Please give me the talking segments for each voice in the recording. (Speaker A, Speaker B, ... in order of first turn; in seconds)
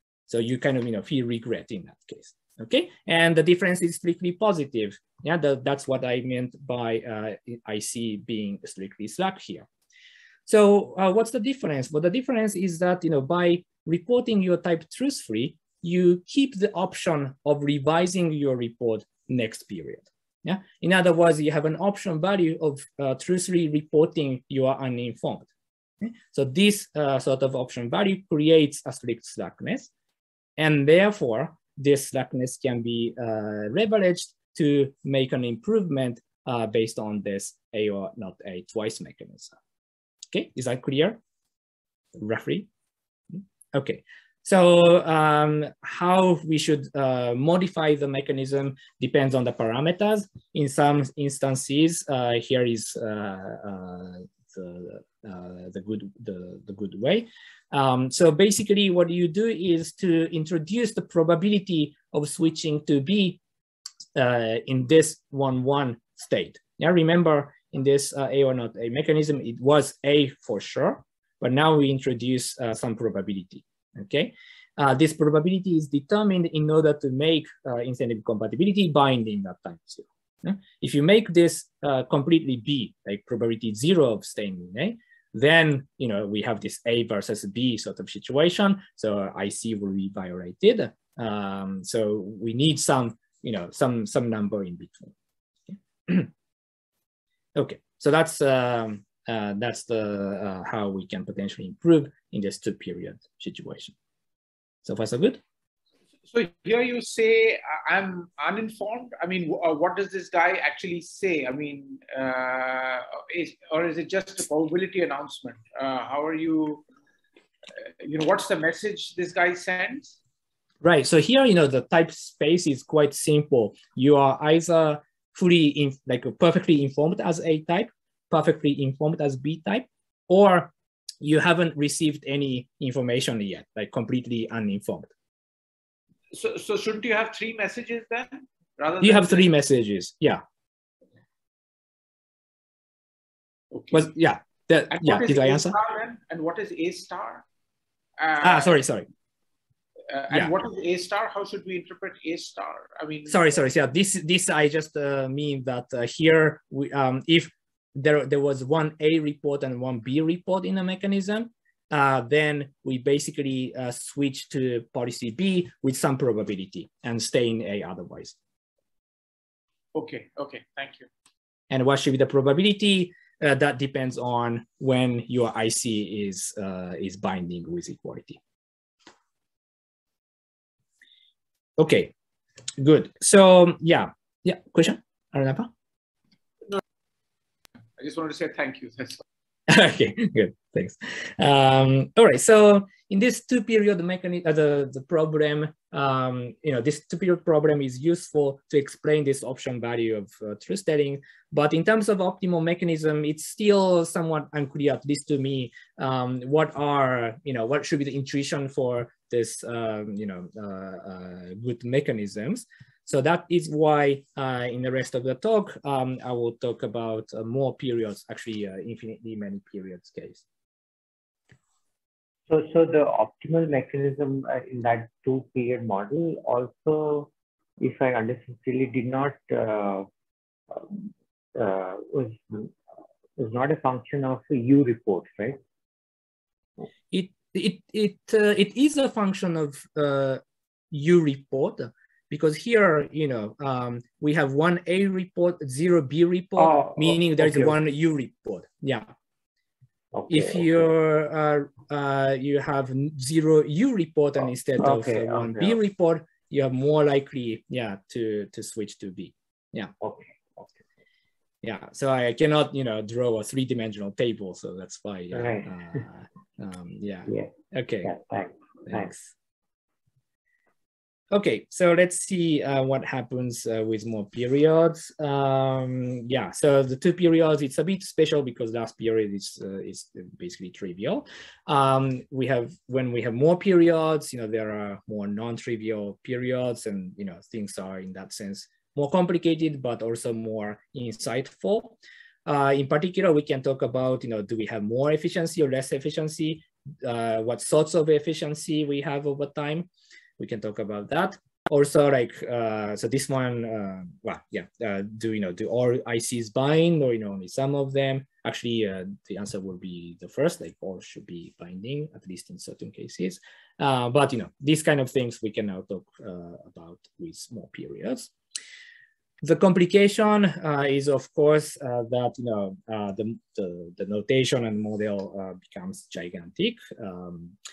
Speaker A: 0.3-9.7, 10.5-25.5, 26.0-29.9, 30.6-39.6, 40.3-41.2, 42.1-42.7, 43.3-63.4, 64.2-95.1, 95.7-96.3, 97.5-104.0, 104.8-105.4, 120.8-135.1, 139.0-140.4, 143.9-145.8, 148.4-149.1, 153.3-168.4, 171.7-178.4, 181.8-182.1, 182.8-185.7, 189.7-220.4, 237.1-249.1, 250.3-259.9, 261.6-268.1, 268.9-269.2, 271.3-299.9, 300.4-318.3, 319.4-327.6
Speaker B: 106.3-116.8, 117.8-120.2, 136.3-139.5, 143.7-144.1, 144.9-147.4, 148.2-148.8, 150.1-153.5, 169.9-171.1, 188.0-189.2
Speaker C: 222.5-230.1, 230.7-232.7, 233.4-235.6, 246.6-247.8, 250.1-250.7, 254.8-255.8, 260.0-260.8, 265.3-266.0, 267.3-269.2